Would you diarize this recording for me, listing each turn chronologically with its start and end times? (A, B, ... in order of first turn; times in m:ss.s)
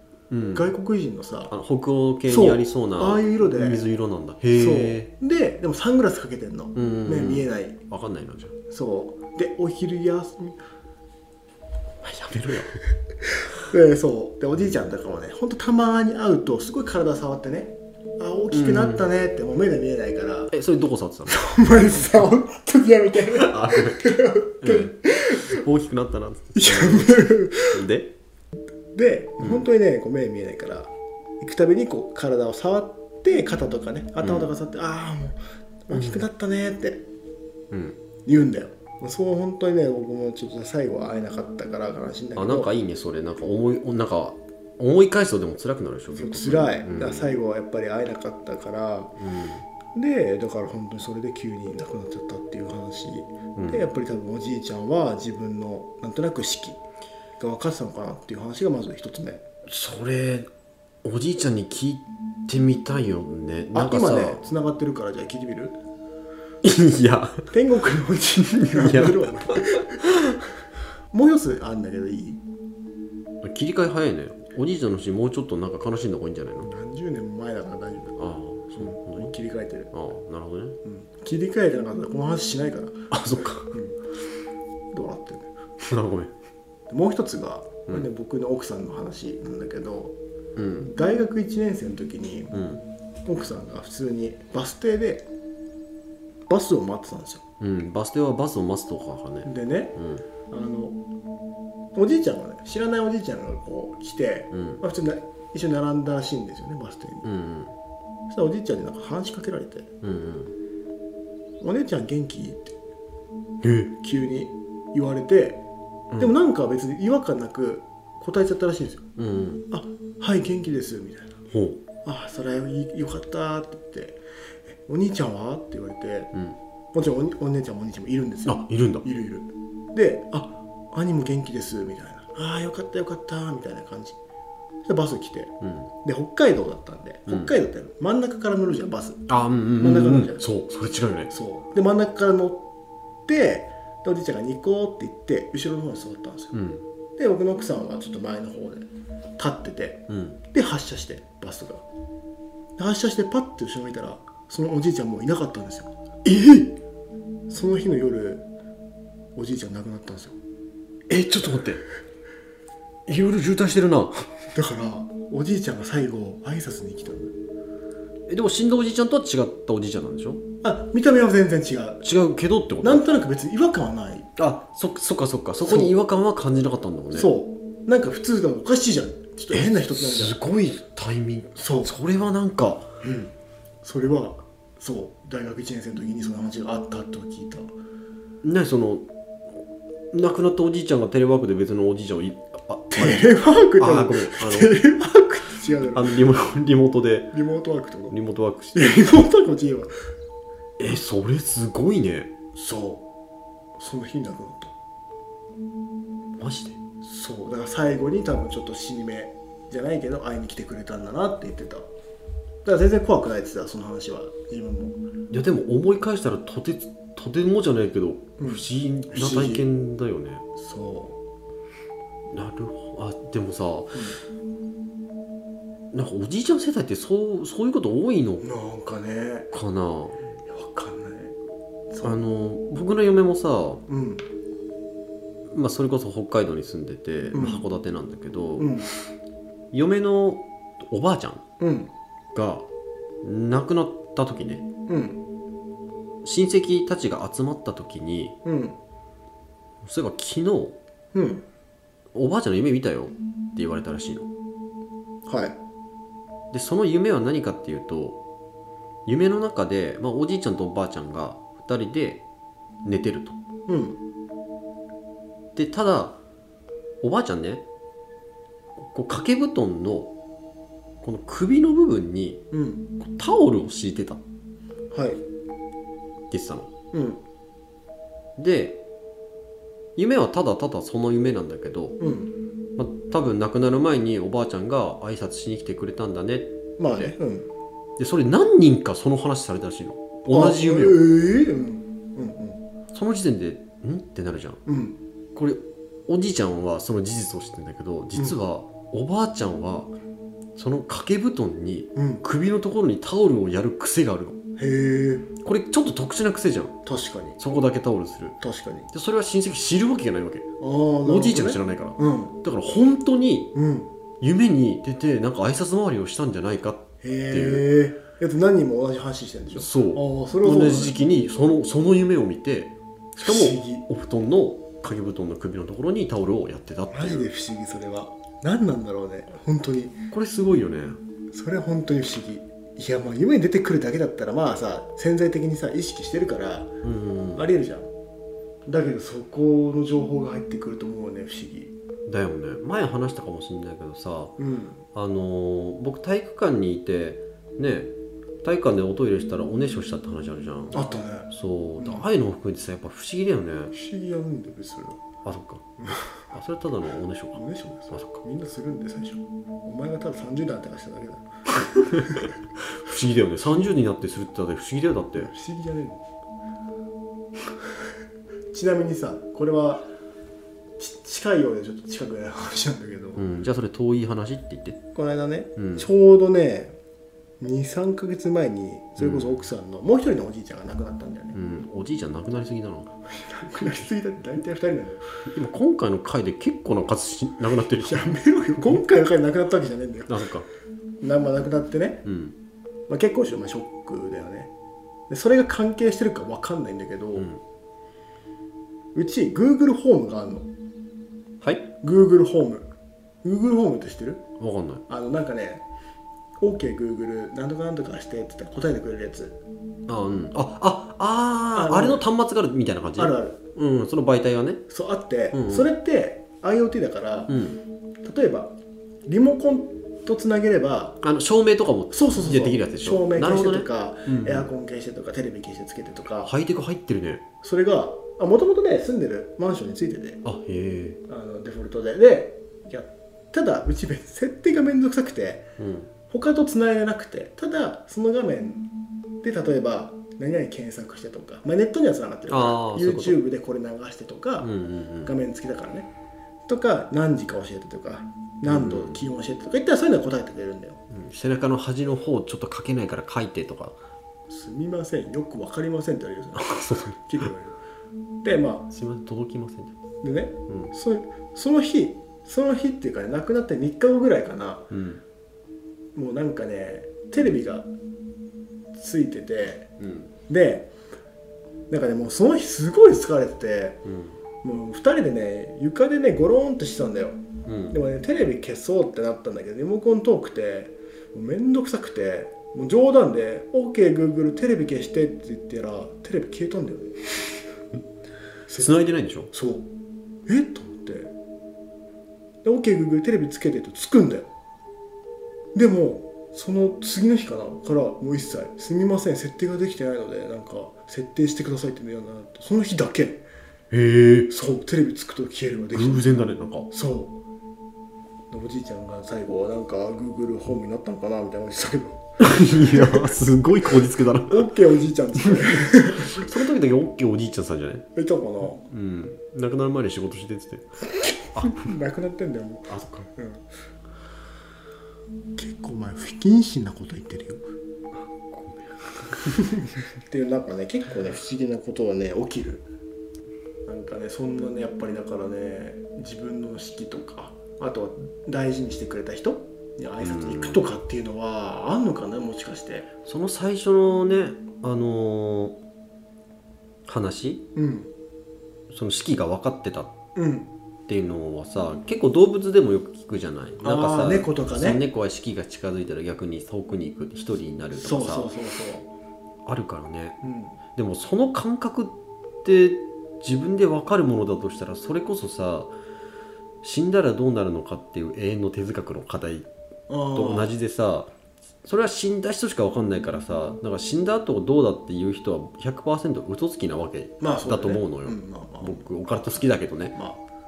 0:00.3-0:00.7 A
0:00.5-0:01.5 B
0:01.5-0:05.1 A
0:02.2-0:03.8 B
0:04.5-0:07.8 B
0:06.7-0:08.5 A
0:08.7-0:10.6 B
0:12.0-0:12.8 A
0:13.5-0:20.5 B
0:18.5-0:19.1 A
0:20.5-0:21.4 A
0:21.3-0:25.6 B
0:23.3-0:28.1 A
0:26.5-0:27.8 B
0:28.9-0:37.0 B
0:29.4-0:29.6 A
0:34.2-0:34.5 A
0:35.9-0:36.2 A
0:37.7-0:38.0 A
0:38.2-0:42.7 B
0:42.4-0:47.3 A
0:46.1-0:49.1 B
0:49.2-0:49.6 A
0:49.9-0:56.8 B
0:53.6-0:53.9 A
0:57.4-0:59.4 B
0:59.7-1:00.5 A
1:01.0-1:04.4 A
1:03.7-1:05.8 B
1:06.6-1:07.5 A
1:07.5-1:10.0 B
1:08.6-1:10.2 A
1:11.1-1:12.4 B
1:13.4-1:16.7 A
1:16.6-1:19.9 B
1:18.2-1:19.3 A
1:19.9-1:20.8 A
1:20.8-1:23.1 B
1:23.1-1:23.8 A
1:23.7-1:24.0 B
1:24.9-1:25.5 B
1:25.8-1:26.3 A
1:26.9-1:30.2 B
1:30.6-1:30.9 A
1:30.8-1:32.6 B
1:32.5-1:32.8 A
1:33.2-1:35.3 B
1:36.5-1:37.4 B
1:37.6-1:40.2 A
1:39.4-1:40.0 B
1:40.5-1:41.0 B
1:41.9-1:47.3 B
1:44.5-1:44.8 A
1:47.2-1:47.7 A
1:48.3-1:49.9 B
1:50.0-1:50.5 A
1:51.6-1:52.7 B
1:53.6-1:53.9 A
1:54.0-1:55.6 B
1:56.2-1:59.0 B
1:59.2-1:59.6 A
1:59.7-2:01.4 B
2:01.5-2:01.8 A
2:02.0-2:06.3 B
2:06.9-2:14.2 B
2:08.4-2:09.0 A
2:14.8-2:20.5 B
2:15.6-2:15.9 A
2:17.3-2:17.5 A
2:19.3-2:21.3 A
2:21.3-2:22.7 B
2:23.3-2:26.5 B
2:26.5-2:26.8 A
2:27.2-2:31.8 B
2:30.1-2:30.4 A
2:32.8-2:36.8 B
2:37.5-2:38.4 B
2:39.3-2:40.4 B
2:41.1-2:41.8 A
2:43.1-2:44.3 A
2:44.5-2:47.3 B
2:48.3-2:50.4 A
2:50.6-2:52.0 B
2:52.0-2:53.0 A
2:52.8-2:54.3 B
2:54.4-2:57.3 A
2:55.6-2:56.0 B
2:57.1-3:00.4 B
2:59.5-3:02.9 A
3:01.5-3:01.9 B
3:03.0-3:07.7 B
3:08.4-3:09.0 A
3:10.1-3:14.8 A
3:12.9-3:16.2 B
3:15.9-3:17.3 A
3:17.3-3:18.2 B
3:18.1-3:19.0 A
3:18.7-3:19.9 B
3:20.8-3:22.3 A
3:22.5-3:23.0 B
3:23.8-3:24.7 B
3:26.4-3:26.8 A
3:27.0-3:31.9 B
3:32.6-3:35.0 B
3:35.3-3:40.4 A
3:38.4-3:39.7 B
3:40.6-3:41.2 B
3:42.3-3:44.1 A
3:45.9-3:48.5 A
3:48.4-3:49.5 B
3:49.5-3:50.2 A
3:50.4-3:51.4 B
3:51.9-3:52.2 B
3:52.0-3:53.8 A
3:53.9-3:54.2 B
3:55.5-3:58.8 A
3:57.3-3:57.6 B
3:58.6-3:58.9 B
3:59.7-4:01.4 A
4:01.6-4:01.9 B
4:02.3-4:02.7 A
4:03.2-4:04.6 A
4:04.9-4:05.2 B
4:06.2-4:08.4 A
4:08.4-4:08.8 B
4:09.8-4:10.8 A
4:11.1-4:11.4 B
4:12.1-4:14.3 A
4:15.2-4:15.6 B
4:16.5-4:18.2 A
4:19.0-4:22.2 A
4:22.8-4:23.4 A
4:23.7-4:24.0 B
4:25.6-4:26.2 A
4:27.0-4:27.6 A
4:28.8-4:30.1 A
4:31.0-4:32.4 A
4:32.5-4:32.8 B
4:33.0-4:34.2 A
4:34.9-4:35.2 B
4:36.3-4:36.7 A
4:36.9-4:37.2 B
4:38.4-4:38.8 A
4:40.0-4:42.0 A
4:42.0-4:42.3 B
4:42.8-4:47.1 A
4:46.8-4:47.5 B
4:48.0-4:51.0 A
4:50.3-4:52.6 B
4:52.9-4:54.6 A
4:54.6-4:55.0 B
4:55.3-4:59.9 A
5:00.6-5:04.4 A
5:01.9-5:02.2 B
5:04.6-5:05.3 B
5:05.4-5:06.8 A
5:06.8-5:07.4 B
5:07.4-5:08.4 A
5:08.4-5:08.9 B
5:08.9-5:10.4 A
5:10.6-5:12.4 B
5:11.0-5:13.5 A
5:13.5-5:13.9 B
5:14.2-5:17.7 A
5:17.0-5:21.0 B
5:19.5-5:27.3 A
5:23.2-5:23.8 B
5:26.9-5:30.0 B
5:30.1-5:31.0 A
5:31.3-5:36.7 B
5:36.8-5:37.5 A
5:37.4-5:37.9 B
5:38.7-5:41.7 B
5:42.1-5:44.3 A
5:44.4-5:44.8 B
5:44.9-5:47.9 A
5:48.4-5:53.7 A
5:50.7-5:52.0 B
5:53.7-5:55.0 B
5:55.2-5:55.6 A
5:55.8-5:56.2 B
5:56.3-5:58.2 A
5:57.3-6:01.2 B
6:01.7-6:05.3 A
6:05.2-6:06.0 B
6:08.5-6:09.9 B
6:10.8-6:13.2 B
6:13.2-6:14.8 A
6:14.9-6:16.8 B
6:15.6-6:15.9 A
6:17.4-6:21.4 B
6:19.0-6:19.4 A
6:21.3-6:22.9 A
6:23.1-6:25.0 B
6:25.3-6:28.2 A
6:27.8-6:30.2 B
6:30.1-6:30.4 A
6:31.0-6:32.1 B
6:32.0-6:32.3 A
6:32.9-6:34.5 B
6:35.1-6:37.3 B
6:37.2-6:37.4 A
6:38.9-6:40.5 B
6:41.4-6:41.7 A
6:41.8-6:42.7 B
6:43.2-6:44.2 B
6:44.4-6:44.8 A
6:44.9-6:45.6 B
6:46.4-6:49.4 B
6:49.9-6:54.6 A
6:51.5-6:52.1 B
6:53.0-6:53.4 B
6:54.7-6:57.4 B
6:55.3-6:55.7 A
6:57.3-6:57.6 A
6:58.0-6:58.6 B
6:59.1-7:01.0 B
7:01.0-7:04.5 A
7:01.9-7:06.3 B
7:06.2-7:07.2 A
7:07.4-7:10.2 B
7:10.2-7:11.0 A
7:11.1-7:15.4 B
7:15.6-7:15.9 A
7:16.1-7:18.6 B
7:19.2-7:24.5 B
7:22.3-7:23.2 A
7:24.4-7:25.1 A
7:25.0-7:25.9 B
7:26.5-7:30.8 B
7:28.4-7:29.0 A
7:30.9-7:33.8 A
7:34.3-7:37.6 B
7:36.4-7:37.3 A
7:38.2-7:38.7 B
7:38.7-7:39.7 A
7:40.0-7:44.7 B
7:44.7-7:45.0 A
7:45.9-7:47.7 B
7:48.7-7:49.7 B
7:49.8-7:50.1 A
7:50.3-7:50.7 B
7:51.7-7:53.8 B
7:53.8-7:54.2 A
7:54.4-8:07.0 B
7:57.4-7:57.8 A
8:08.5-8:09.7 B
8:08.6-8:09.3 A
8:10.3-8:11.1 B
8:12.4-8:14.3 B
8:15.5-8:23.2 B
8:23.7-8:24.3 A
8:24.3-8:27.2 B
8:25.7-8:26.7 A
8:28.3-8:33.2 B
8:32.2-8:34.5 A
8:34.2-8:36.2 B
8:35.2-8:37.9 A
8:37.9-8:38.6 B
8:38.5-8:40.6 A
8:41.3-8:41.7 A
8:41.3-8:43.4 B
8:42.7-8:43.1 A
8:45.4-8:47.4 B
8:48.2-8:49.4 A
8:49.6-8:52.6 B
8:53.6-9:02.9 B
9:00.0-9:00.6 A
9:03.0-9:05.6 A
9:06.8-9:07.4 A
9:07.5-9:07.9 B
9:08.7-9:09.9 A
9:10.1-9:10.5 B
9:10.9-9:18.3 A
9:13.6-9:14.8 B
9:17.7-9:18.9 B
9:19.4-9:20.2 A
9:20.2-9:20.6 B
9:20.7-9:25.7 A
9:26.6-9:29.5 A
9:29.9-9:30.5 B
9:30.1-9:31.1 A
9:31.6-9:39.9 A
9:37.2-9:40.2 B